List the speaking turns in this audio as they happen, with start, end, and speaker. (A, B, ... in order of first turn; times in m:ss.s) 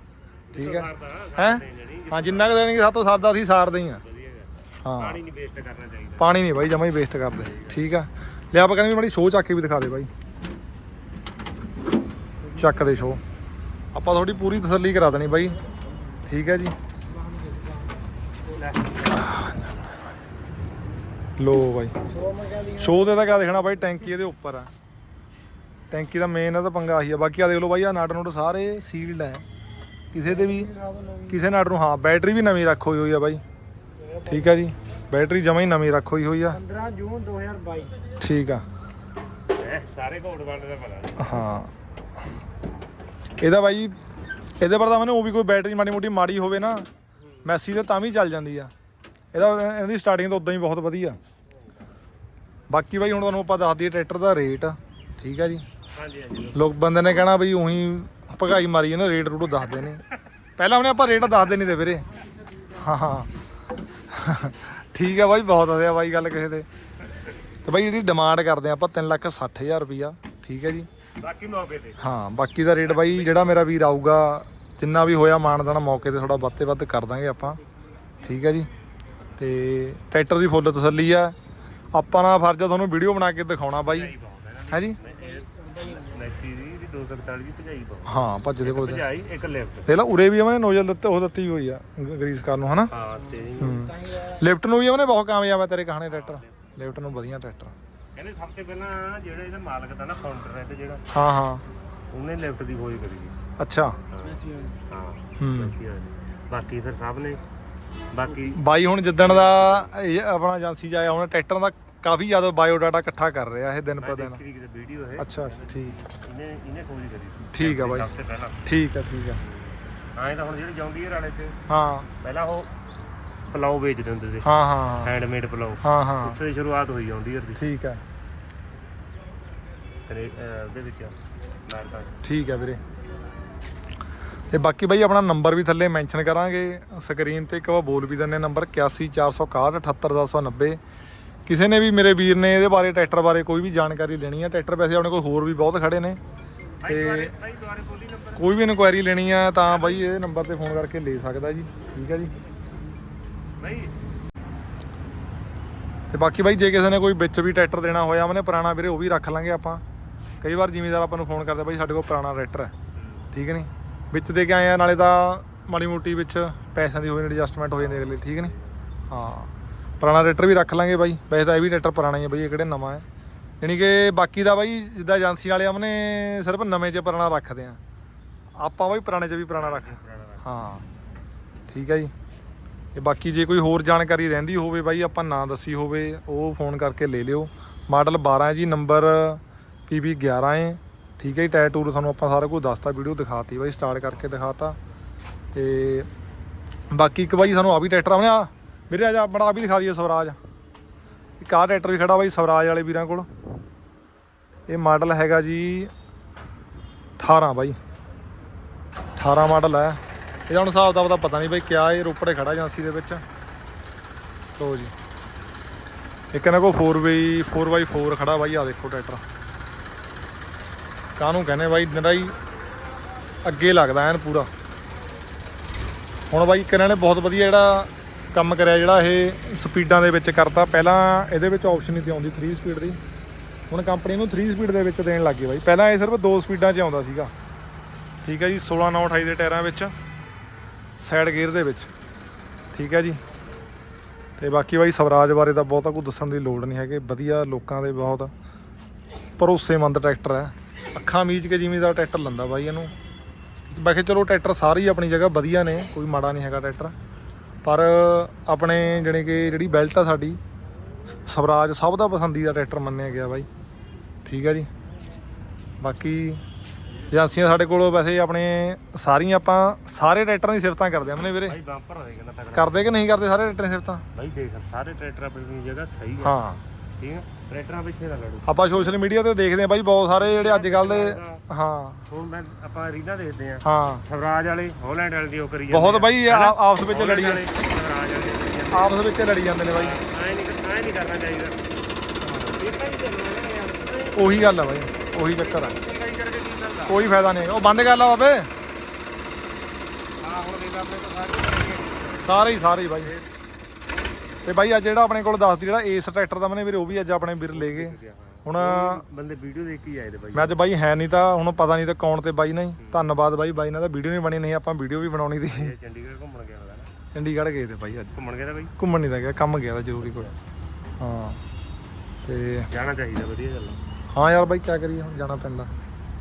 0:00.5-0:02.9 A
0:00.5-0:04.0 B
0:03.8-0:06.5 A
0:04.8-0:05.2 B
0:06.2-0:10.1 B
0:07.4-0:07.8 A
0:12.5-0:13.2 B
0:13.9-0:15.6 B
0:16.2-0:16.7 B
0:18.5-0:19.4 A
0:19.3-0:19.6 B
0:21.4-0:21.9 B
0:22.1-0:22.8 C
0:22.7-0:24.7 B
0:25.9-0:29.4 B
0:30.1-0:30.7 B
0:30.6-0:31.3 C
0:31.3-0:33.4 B
0:34.2-0:36.6 B
0:36.5-0:38.0 C
0:38.2-0:38.6 B
0:39.6-0:41.4 A
0:41.2-0:41.7 B
0:43.4-0:44.0 B
0:44.6-0:46.8 B
0:47.4-0:48.7 B
0:49.3-0:51.2 B
0:52.7-0:55.6 B
0:55.9-0:56.7 A
0:56.5-1:00.0 B
1:00.6-1:02.0 B
1:02.7-1:03.3 B
1:04.1-1:06.6 B
1:07.6-1:10.9 B
1:11.2-1:12.0 A
1:12.0-1:17.6 B
1:12.8-1:13.6 A
1:18.2-1:18.7 B
1:19.4-1:21.3 B
1:21.9-1:24.1 B
1:23.8-1:29.9 A
1:24.7-1:25.0 B
1:28.1-1:29.0 B
1:29.9-1:32.9 B
1:32.9-1:33.9 A
1:33.6-1:37.7 B
1:36.1-1:36.6 A
1:38.1-1:41.0 A
1:41.1-1:41.6 B
1:42.1-1:43.3 A
1:43.6-1:44.0 B
1:44.1-1:47.4 A
1:45.4-1:45.7 B
1:48.1-1:48.6 A
1:48.5-1:54.4 B
1:49.2-1:50.0 A
1:54.0-1:58.6 A
1:55.2-1:56.0 B
1:57.5-1:58.1 B
1:58.6-1:59.4 B
1:59.4-2:01.6 A
2:01.7-2:02.1 B
2:02.2-2:02.7 A
2:03.5-2:04.5 A
2:04.4-2:05.1 B
2:05.0-2:07.6 A
2:05.8-2:06.4 B
2:07.6-2:08.0 B
2:10.0-2:11.1 A
2:11.6-2:12.2 A
2:12.2-2:12.8 B
2:14.5-2:20.8 B
2:21.5-2:26.2 B
2:26.8-2:28.6 A
2:26.8-2:27.3 B
2:28.4-2:32.3 B
2:29.6-2:30.1 A
2:33.6-2:33.9 A
2:36.1-2:39.8 B
2:40.4-2:42.7 B
2:42.9-2:43.3 A
2:43.3-2:48.5 B
2:47.7-2:48.8 A
2:49.1-2:49.5 B
2:50.0-2:53.0 B
2:53.6-2:57.8 B
2:58.6-3:00.8 B
2:59.5-3:00.6 A
3:01.7-3:02.1 B
3:02.9-3:14.8 B
3:15.5-3:16.1 B
3:16.9-3:20.4 B
3:21.4-3:23.3 B
3:24.7-3:25.9 B
3:27.2-3:27.8 B
3:29.2-3:33.2 B
3:34.6-3:34.9 B
3:36.3-3:39.2 B
3:41.2-3:42.3 B
3:43.4-3:44.5 B
3:46.3-3:53.0 B
3:53.7-3:57.3 B
3:58.2-3:59.9 B
4:01.0-4:01.9 B
4:02.7-4:03.2 B
4:04.4-4:08.3 B
4:09.4-4:12.9 B
4:13.7-4:16.9 B
4:17.6-4:20.4 B
4:21.1-4:23.5 B
4:24.2-4:24.7 B
4:25.8-4:26.4 B
4:27.1-4:31.6 B
4:31.4-4:32.9 A
4:32.5-4:34.0 B
4:34.1-4:36.4 A
4:36.2-4:36.6 B
4:37.0-4:38.4 A
4:38.4-4:42.0 B
4:40.2-4:41.4 A
4:42.1-4:49.0 A
4:43.6-4:44.0 B
4:45.7-4:47.4 B
4:48.7-4:50.0 B
4:49.7-4:51.7 A
4:52.2-4:52.6 B
4:52.5-4:54.4 A
4:54.1-4:55.8 B
4:55.2-4:57.0 A
4:56.8-4:58.5 B
5:00.2-5:02.4 A
5:02.2-5:03.1 B
5:03.0-5:03.3 A
5:04.4-5:09.0 B
5:07.5-5:10.6 A
5:10.3-5:15.7 B
5:12.8-5:13.0 A
5:15.5-5:16.9 A
5:17.1-5:18.2 B
5:18.1-5:18.7 A
5:18.8-5:20.3 B
5:20.0-5:20.3 A
5:21.0-5:21.4 B
5:22.2-5:22.7 B
5:22.7-5:23.8 A
5:24.1-5:25.7 B